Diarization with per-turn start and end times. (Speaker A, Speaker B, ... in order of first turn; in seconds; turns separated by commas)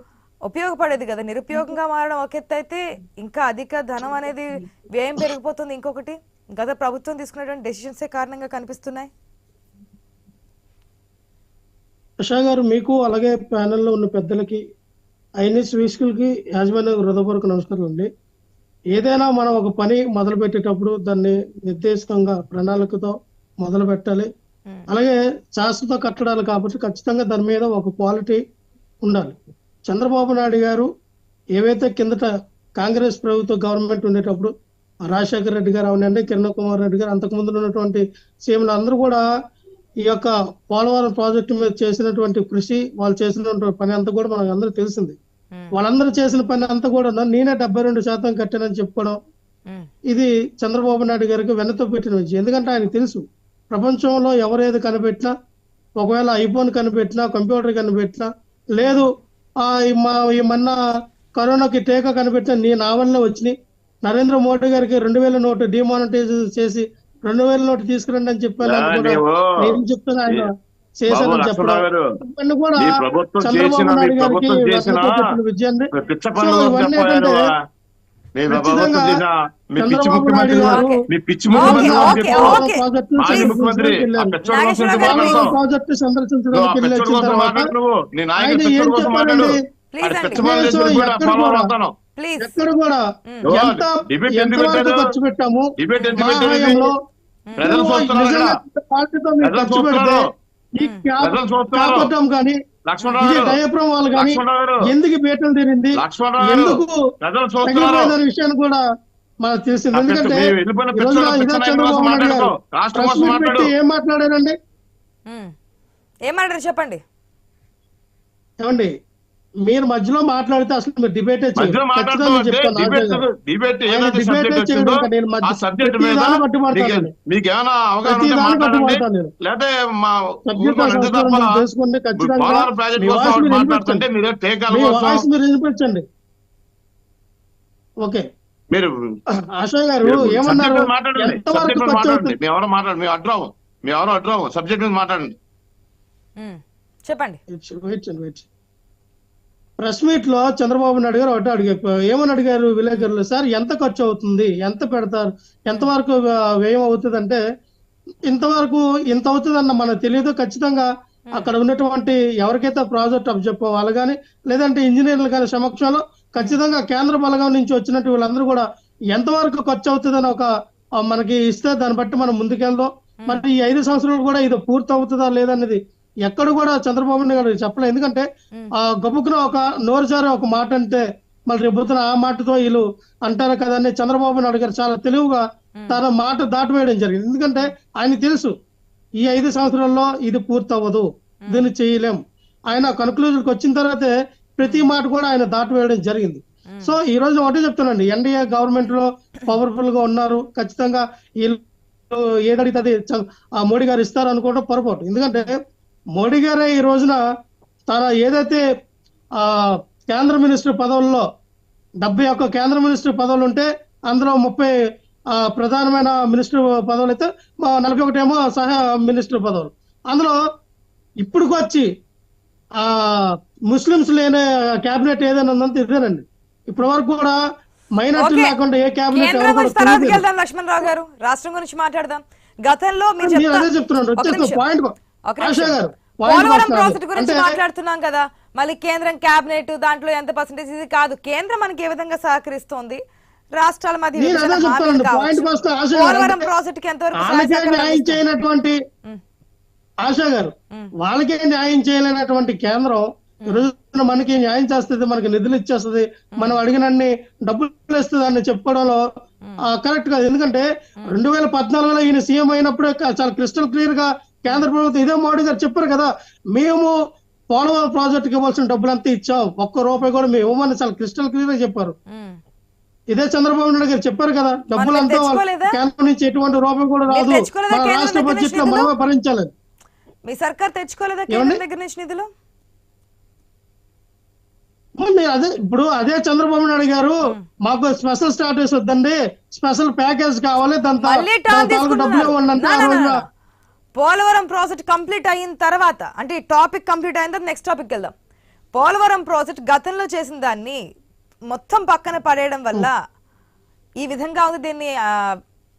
Speaker A: 0.5-9.1, Speaker B: 12.2-14.6, Speaker B: 15.4-18.1, Speaker B: 18.9-24.3, Speaker B: 24.9-28.4, Speaker B: 29.1-29.4, Speaker B: 29.9-30.9, Speaker B: 31.6-34.5, Speaker B: 35.1-39.2, Speaker B: 40.1-45.2, Speaker B: 45.8-49.2, Speaker B: 50.1-55.3, Speaker B: 56.0-59.1, Speaker B: 59.6-60.8, Speaker B: 61.4-77.5, Speaker C: 68.6-69.8, Speaker C: 71.1-72.0, Speaker C: 72.8-75.2, Speaker C: 76.0-77.6, Speaker C: 78.3-82.6, Speaker B: 78.5-79.2, Speaker B: 79.8-81.0, Speaker A: 80.6-81.0, Speaker B: 81.5-84.3, Speaker A: 81.5-83.5, Speaker C: 83.2-85.6, Speaker A: 84.5-85.5, Speaker B: 84.9-87.7, Speaker C: 86.5-91.9, Speaker B: 88.4-89.6, Speaker A: 89.9-90.4, Speaker B: 90.4-91.7, Speaker A: 92.2-92.5, Speaker B: 92.4-96.9, Speaker C: 93.5-95.2, Speaker C: 95.8-96.9, Speaker A: 96.0-96.5, Speaker C: 97.6-98.6, Speaker B: 97.6-100.2, Speaker C: 99.4-100.3, Speaker B: 100.8-102.6, Speaker C: 101.2-102.1, Speaker C: 102.9-103.6, Speaker B: 103.2-106.9, Speaker C: 104.2-104.9, Speaker C: 106.0-108.2, Speaker B: 107.6-108.8, Speaker B: 109.4-114.5, Speaker C: 109.9-113.7, Speaker A: 116.3-117.0, Speaker B: 118.6-118.9, Speaker B: 119.7-123.2, Speaker C: 121.6-131.6, Speaker B: 123.9-127.1, Speaker B: 128.1-129.3, Speaker B: 130.5-134.1, Speaker C: 132.2-135.3, Speaker B: 134.7-136.0, Speaker B: 139.6-142.3, Speaker C: 140.0-145.3, Speaker A: 146.4-147.4, Speaker B: 147.5-148.5, Speaker B: 149.8-157.4, Speaker B: 158.3-170.5, Speaker B: 171.0-178.3, Speaker B: 178.8-188.5, Speaker B: 189.2-201.6, Speaker A: 191.4-191.7, Speaker A: 194.6-194.9, Speaker A: 196.7-197.0, Speaker B: 202.1-205.6, Speaker B: 206.2-207.2, Speaker B: 207.9-208.6, Speaker B: 209.4-211.2, Speaker B: 212.0-214.7, Speaker B: 215.3-220.4, Speaker B: 221.2-221.9, Speaker B: 222.8-227.4, Speaker B: 228.0-230.2, Speaker A: 228.2-228.5, Speaker A: 229.1-234.6, Speaker B: 233.2-237.5, Speaker A: 235.3-235.8, Speaker A: 236.3-243.0, Speaker A: 243.6-248.2, Speaker B: 244.2-246.5, Speaker B: 247.2-248.8, Speaker B: 250.0-259.0, Speaker B: 259.7-266.9, Speaker B: 267.5-271.9, Speaker B: 273.1-279.5, Speaker A: 274.8-275.8, Speaker A: 277.1-278.9, Speaker A: 280.3-282.3, Speaker B: 281.3-281.6, Speaker B: 285.0-293.2, Speaker A: 291.0-293.2, Speaker A: 294.0-298.1, Speaker A: 298.7-300.8, Speaker A: 301.5-303.0, Speaker A: 304.0-305.4